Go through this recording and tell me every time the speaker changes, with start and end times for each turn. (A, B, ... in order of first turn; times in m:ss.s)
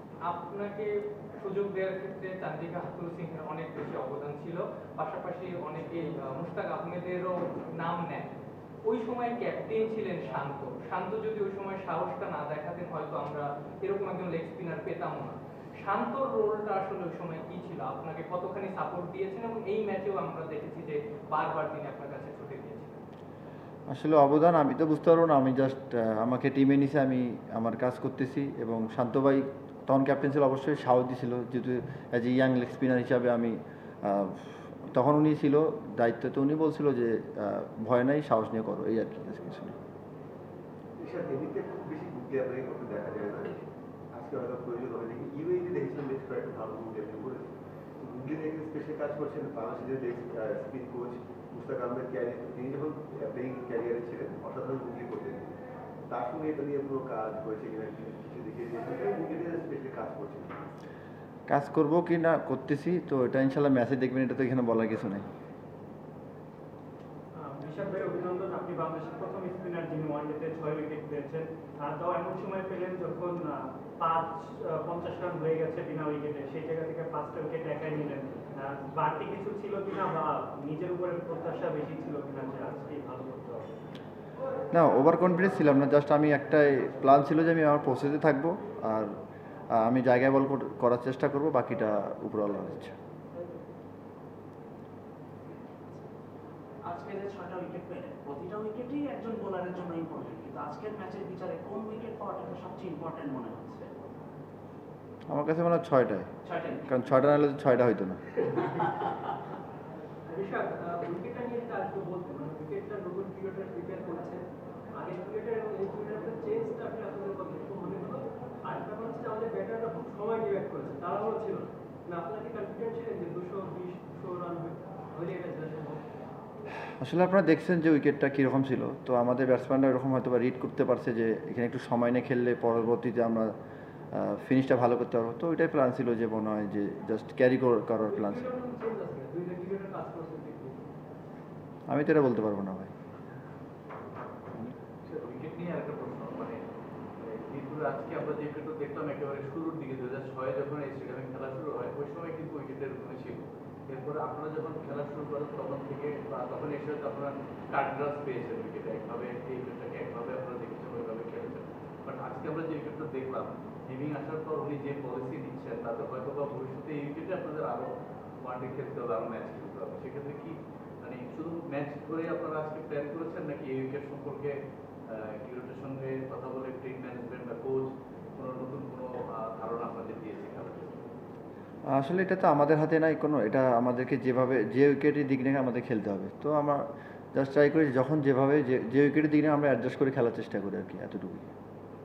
0:00.2-0:23.0 A
0:23.9-0:39.8 B
0:41.0-0:43.6 C
0:44.1-0:55.5 C
0:56.1-1:00.5 C
1:01.5-1:05.2 B
1:07.3-1:23.7 D
1:24.7-1:29.2 B
1:29.7-1:32.9 B
1:36.8-1:43.9 E
1:45.3-1:46.3 B
1:46.4-1:46.8 E
1:46.9-1:48.3 B
1:50.3-2:06.0 F
2:07.0-2:13.5 B
2:14.1-2:18.5 B
2:18.1-2:20.9 F
2:21.9-2:22.9 B
2:25.1-2:26.6 G
2:27.2-2:54.6 G
2:55.1-3:01.0 G
3:01.9-3:11.5 B